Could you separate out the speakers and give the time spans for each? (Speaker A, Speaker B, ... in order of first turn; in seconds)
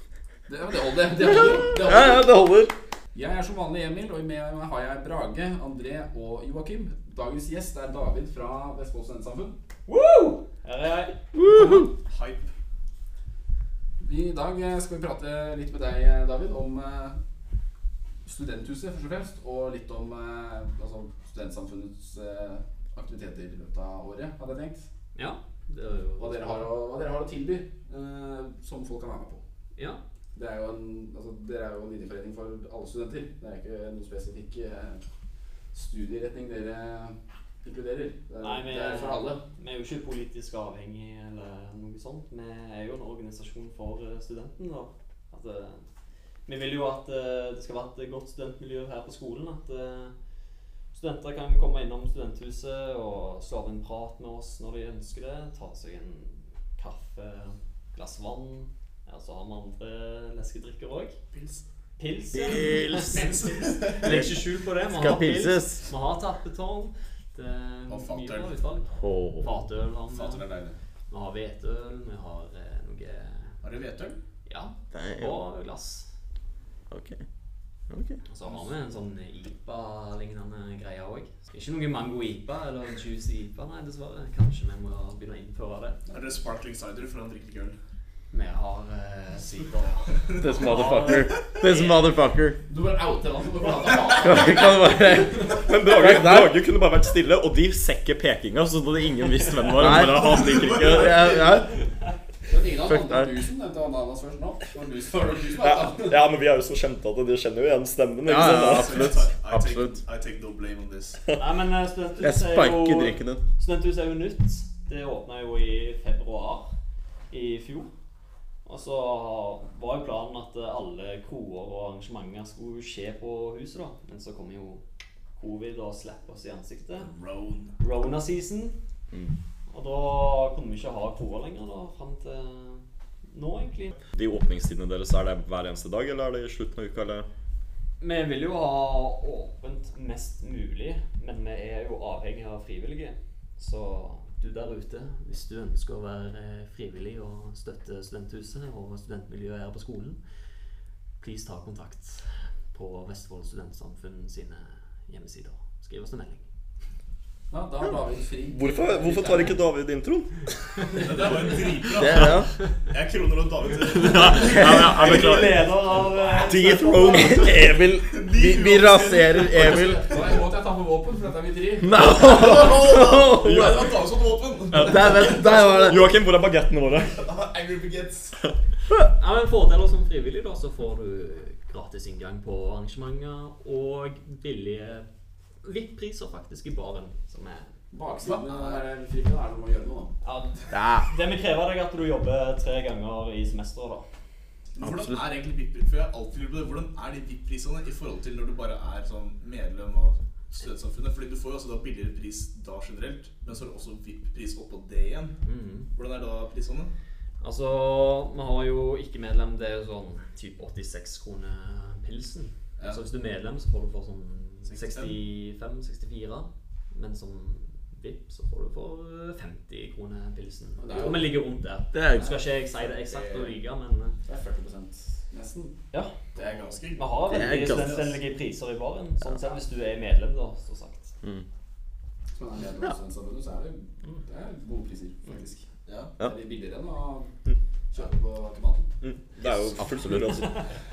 Speaker A: 0.5-2.3, 3.1-9.6, 14.0-17.2, 18.2-24.9, 26.2-29.4, 30.3-35.0, 35.7-39.4, 92.7-95.0, 102.5-106.3, 157.5-159.6, 161.0-161.6, 169.5-172.1, 187.9-190.1, 220.8-221.4, 222.9-223.5, 224.3-225.8, 226.4-226.8, 232.4-235.7, 236.2-237.3, 237.9-238.9
Speaker B: 1.2-2.7, 11.3-11.9, 62.3-63.3, 64.0-65.9, 69.0-69.5, 74.9-75.4, 76.9-77.2, 77.9-78.2, 90.4-92.6, 94.2-96.6, 99.8-101.7, 102.9-103.5, 108.2-110.0, 112.2-113.4, 161.9-162.5, 164.6-164.9, 166.5-170.1, 171.8-173.8, 174.8-176.1, 190.7-191.1, 194.8-195.2, 221.9-222.4, 227.3-228.0, 239.8-240.6
Speaker C: 9.9-11.2, 25.1-26.8, 29.8-30.0, 38.4-45.8, 46.5-50.1, 50.9-61.2, 62.0-70.5, 71.1-73.5, 74.5-76.1, 78.3-86.0, 88.3-92.0, 111.4-116.7, 117.3-117.9, 118.7-124.8, 125.4-127.1, 127.8-128.8, 129.7-133.9, 138.0-150.2, 151.2-156.4, 164.1-167.5, 179.2-185.1, 185.6-187.7, 190.2-194.1, 205.4-205.9, 207.4-224.2, 226.9-231.1, 240.2-240.7
Speaker D: 11.4-12.5, 61.3-61.6, 62.5-64.3, 67.9-68.5, 70.1-70.8, 73.6-74.2, 86.1-87.8, 90.2-91.7, 100.0-101.7, 108.4-111.2, 127.0-127.8, 160.9-165.7, 167.3-170.4, 172.1-175.9, 177.1-178.4, 188.2-188.8, 194.8-205.4, 205.9-206.9, 214.7-215.2, 226.3-228.2, 235.9-236.2
Speaker E: 95.6-101.3, 105.6-109.1, 134.1-137.3, 158.5-160.8, 163.9-165.6, 166.4-167.3, 173.4-173.8, 174.7-177.2, 239.0-240.6